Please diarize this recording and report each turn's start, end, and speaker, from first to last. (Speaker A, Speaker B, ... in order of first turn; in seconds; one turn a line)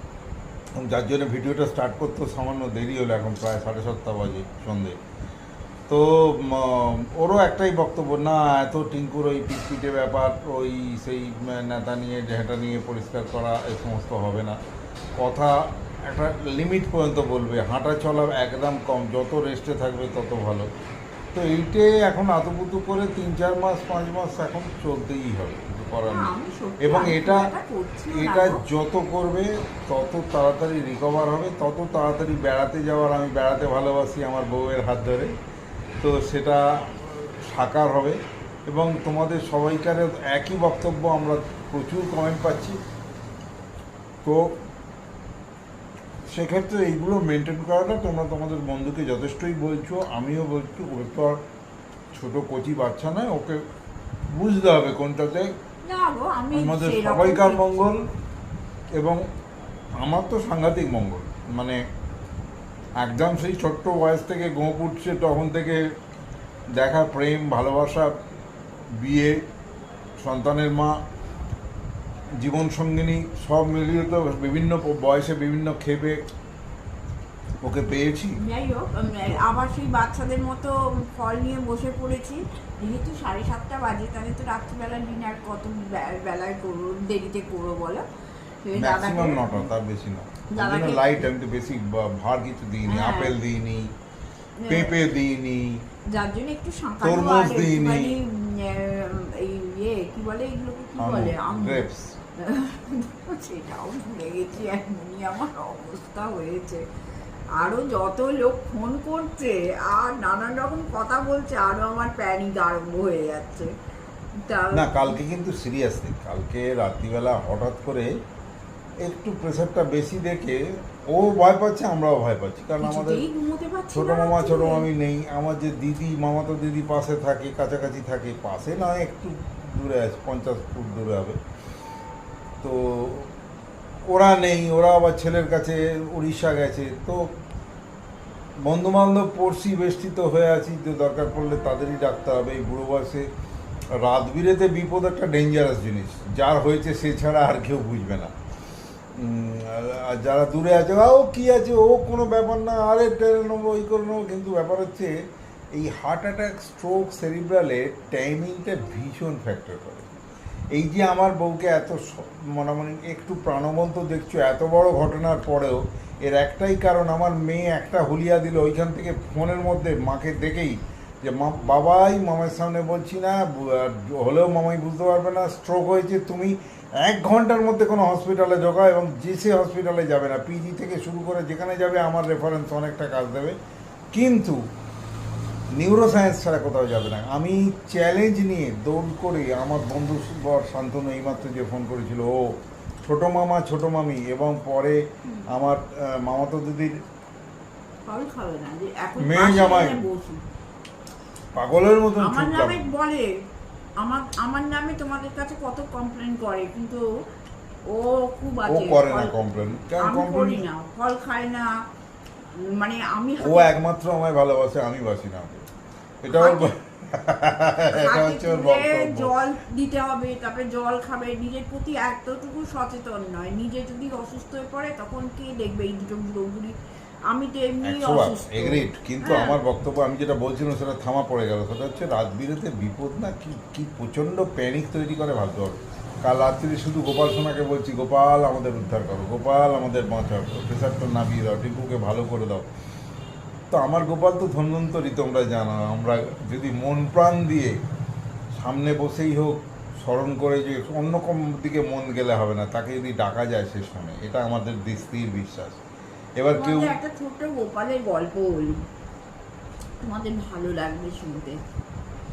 Speaker A: 0.8-5.0
Speaker A: 5.9-14.6
Speaker A: 15.2-20.7
Speaker A: 21.3-26.3
Speaker B: 26.1-28.6
Speaker A: 26.8-27.5
Speaker A: 28.1-35.3
Speaker A: 36.0-42.8
Speaker A: 44.2-44.5
Speaker A: 46.3-51.4
Speaker A: 52.1-53.6
Speaker A: 54.3-55.5
Speaker B: 55.8-57.6
Speaker A: 56.5-58.0
Speaker A: 59.0-59.2
Speaker A: 60.0-61.8
Speaker A: 63.0-65.9
Speaker A: 66.8-68.1
Speaker A: 68.9-69.4
Speaker A: 70.2-71.0
Speaker A: 72.4-76.2
Speaker A: 77.6-78.4
Speaker B: 78.4-88.1
Speaker B: 88.6-89.7
Speaker A: 88.8-93.9
Speaker B: 90.5-91.3
Speaker B: 92.9-93.3
Speaker B: 94.6-95.0
Speaker A: 94.7-95.8
Speaker B: 96.1-101.8
Speaker A: 97.0-98.2
Speaker A: 101.0-102.1
Speaker B: 102.4-106.8
Speaker B: 107.6-113.7
Speaker B: 114.4-115.2
Speaker A: 114.7-118.1
Speaker A: 119.0-123.2
Speaker B: 122.8-124.9
Speaker A: 123.9-131.4
Speaker A: 132.6-133.3
Speaker A: 134.1-137.3
Speaker A: 138.6-143.3
Speaker A: 144.0-148.3
Speaker A: 149.2-155.2
Speaker A: 155.7-160.1
Speaker A: 160.7-183.6
Speaker A: 184.1-184.6
Speaker A: 185.8-192.5
Speaker A: 193.0-197.0
Speaker B: 198.1-200.4
Speaker A: 199.2-200.0
Speaker A: 201.6-202.9
Speaker B: 202.2-203.3
Speaker B: 204.0-207.0
Speaker B: 207.9-209.3
Speaker A: 208.7-210.6
Speaker B: 210.0-211.7
Speaker B: 212.6-213.7
Speaker A: 213.4-215.7
Speaker A: 216.2-219.3
Speaker B: 216.3-216.7
Speaker B: 217.9-226.8
Speaker B: 227.3-229.6
Speaker A: 227.8-242.7
Speaker A: 243.7-247.8
Speaker A: 248.5-255.8
Speaker A: 256.4-257.0
Speaker B: 256.5-258.8
Speaker B: 260.0-261.6